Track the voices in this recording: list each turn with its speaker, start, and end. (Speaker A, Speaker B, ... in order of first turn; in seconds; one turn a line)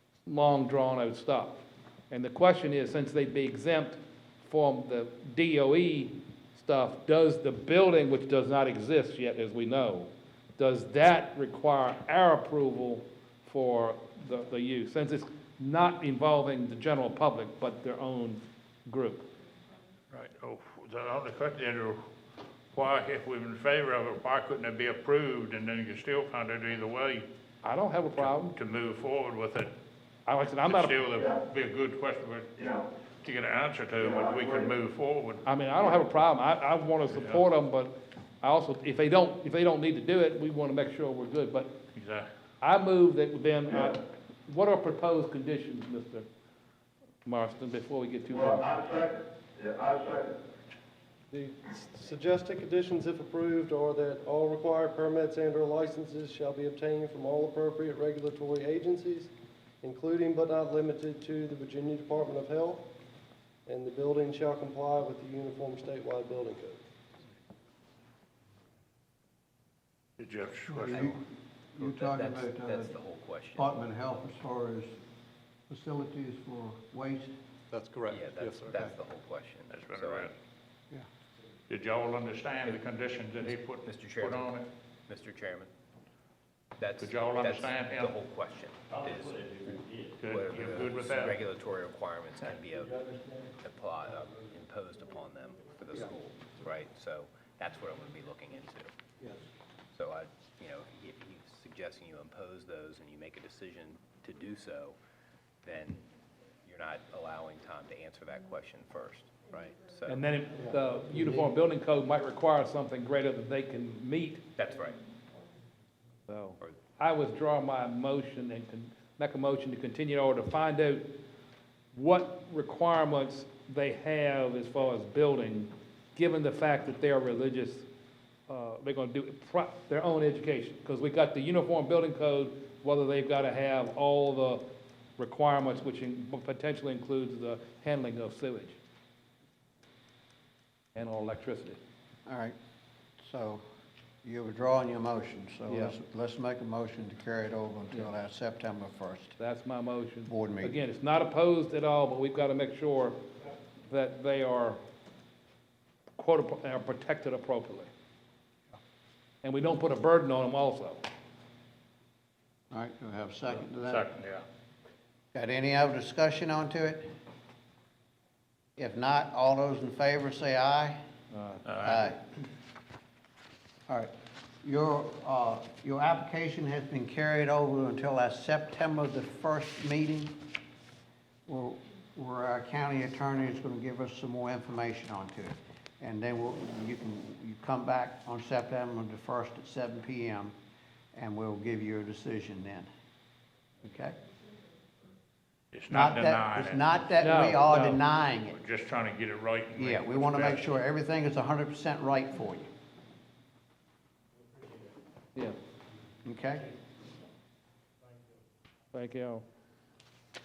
Speaker A: 0.3-19.3
Speaker B: 20.1-22.0
Speaker B: 22.7-27.3
Speaker A: 27.6-28.6
Speaker B: 28.2-29.7
Speaker A: 30.3-31.0
Speaker B: 30.6-32.6
Speaker B: 33.2-35.5
Speaker C: 34.1-34.5
Speaker A: 35.5-41.8
Speaker B: 37.1-37.4
Speaker B: 41.9-42.3
Speaker A: 42.6-46.3
Speaker A: 47.2-48.8
Speaker C: 48.4-50.3
Speaker D: 51.3-62.9
Speaker D: 63.7-66.8
Speaker B: 70.2-71.2
Speaker E: 70.7-71.2
Speaker E: 71.8-73.0
Speaker F: 71.8-73.8
Speaker E: 73.5-74.9
Speaker E: 75.7-77.3
Speaker F: 78.1-80.3
Speaker B: 79.7-80.3
Speaker B: 81.7-84.7
Speaker F: 83.8-85.7
Speaker F: 86.8-93.0
Speaker B: 87.0-88.2
Speaker B: 90.2-91.4
Speaker F: 93.6-98.9
Speaker F: 100.0-105.0
Speaker F: 105.6-106.0
Speaker F: 106.7-110.2
Speaker A: 110.1-114.4
Speaker E: 110.7-111.5
Speaker F: 114.6-115.0
Speaker A: 116.3-121.1
Speaker A: 121.9-127.9
Speaker A: 128.5-134.7
Speaker A: 135.2-138.8
Speaker A: 140.9-141.8
Speaker E: 142.3-142.6
Speaker E: 143.2-143.6
Speaker E: 144.2-149.4
Speaker A: 145.7-145.9
Speaker A: 149.4-153.2
Speaker E: 150.3-150.8
Speaker A: 153.9-154.8
Speaker A: 156.2-157.9
Speaker A: 159.4-161.0
Speaker E: 162.7-164.1
Speaker B: 163.8-164.4
Speaker E: 165.3-167.1
Speaker E: 168.8-171.0
Speaker A: 171.3-171.6
Speaker B: 171.7-172.0
Speaker E: 171.8-172.2
Speaker E: 174.6-180.4
Speaker E: 181.5-190.5
Speaker E: 191.1-192.9
Speaker E: 193.8-194.2
Speaker B: 195.7-196.9
Speaker E: 195.9-198.6
Speaker A: 197.2-198.0
Speaker B: 198.5-200.7
Speaker E: 199.8-202.7
Speaker E: 206.2-206.7
Speaker A: 208.9-209.4